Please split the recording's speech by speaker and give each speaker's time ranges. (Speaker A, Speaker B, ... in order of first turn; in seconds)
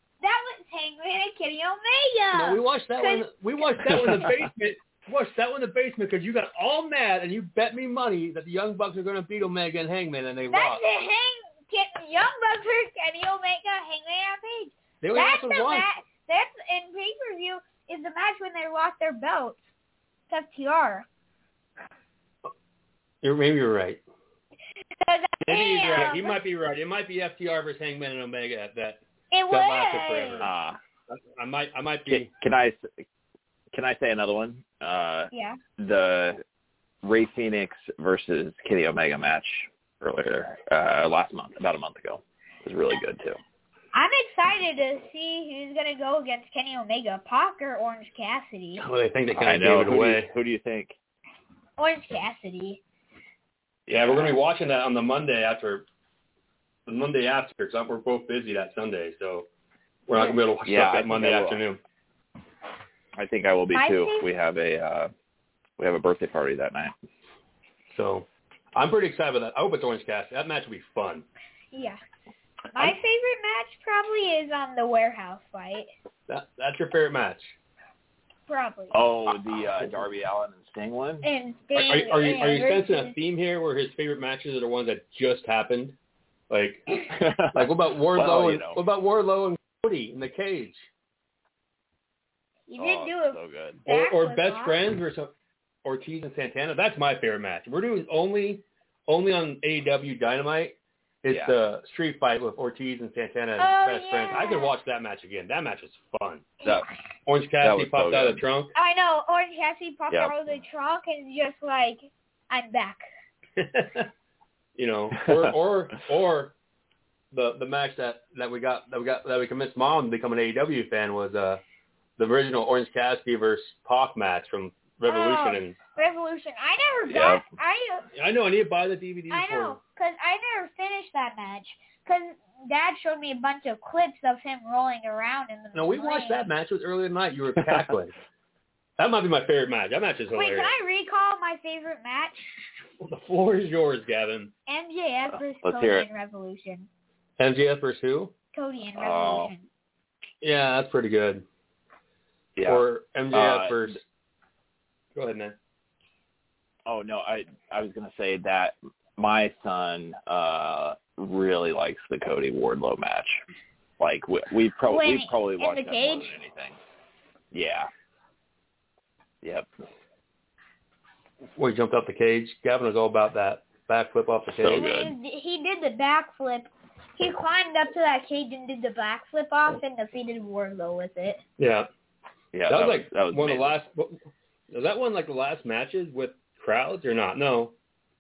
Speaker A: 0.2-3.3, 3.8-4.1, 10.5-19.6, 20.3-21.1, 25.0-26.4, 29.3-30.5, 35.3-35.6, 43.9-48.9, 51.8-52.8, 63.7-64.3, 71.7-72.0, 72.7-75.9, 78.5-79.0, 81.2-83.2, 92.7-94.8, 103.6-104.7, 108.8-113.0, 125.0-128.1, 129.3-136.5, 140.3-142.4, 144.7-146.9, 148.5-149.7, 164.9-166.3, 174.7-181.4
Speaker B: 2.3-10.8, 15.0-15.9, 23.2-24.0, 25.4-30.5, 31.1-32.3, 48.8-50.3, 53.9-55.9, 56.9-59.5, 60.1-61.8, 67.9-71.3, 76.3-77.5, 81.8-86.0, 86.5-86.9, 87.5-90.8, 93.9-95.3, 95.8-106.5, 107.3-108.7, 113.6-114.1, 114.8-116.5, 117.3-121.6, 122.2-125.8, 128.2-129.8, 135.7-138.1, 139.0-140.7, 143.0-144.5, 147.4-148.3, 150.4-151.4, 152.7-154.0, 155.2-155.6, 171.6-174.9, 181.6-181.9, 182.7-184.2, 184.7-187.7
Speaker C: 30.4-30.8, 32.1-33.0, 33.7-36.4, 37.0-43.4, 49.4-51.0, 53.9-54.4, 60.6-61.6, 63.1-65.1, 65.8-66.9, 78.9-81.3, 87.1-88.8, 92.8-93.8, 101.3-101.5, 107.6-108.4, 115.2-115.5, 127.1-127.5, 145.6-146.1, 149.0-149.5, 152.6-154.0, 156.9-163.4, 164.0-166.8, 167.5-167.9, 169.4-169.7, 174.6-175.1, 182.5-183.8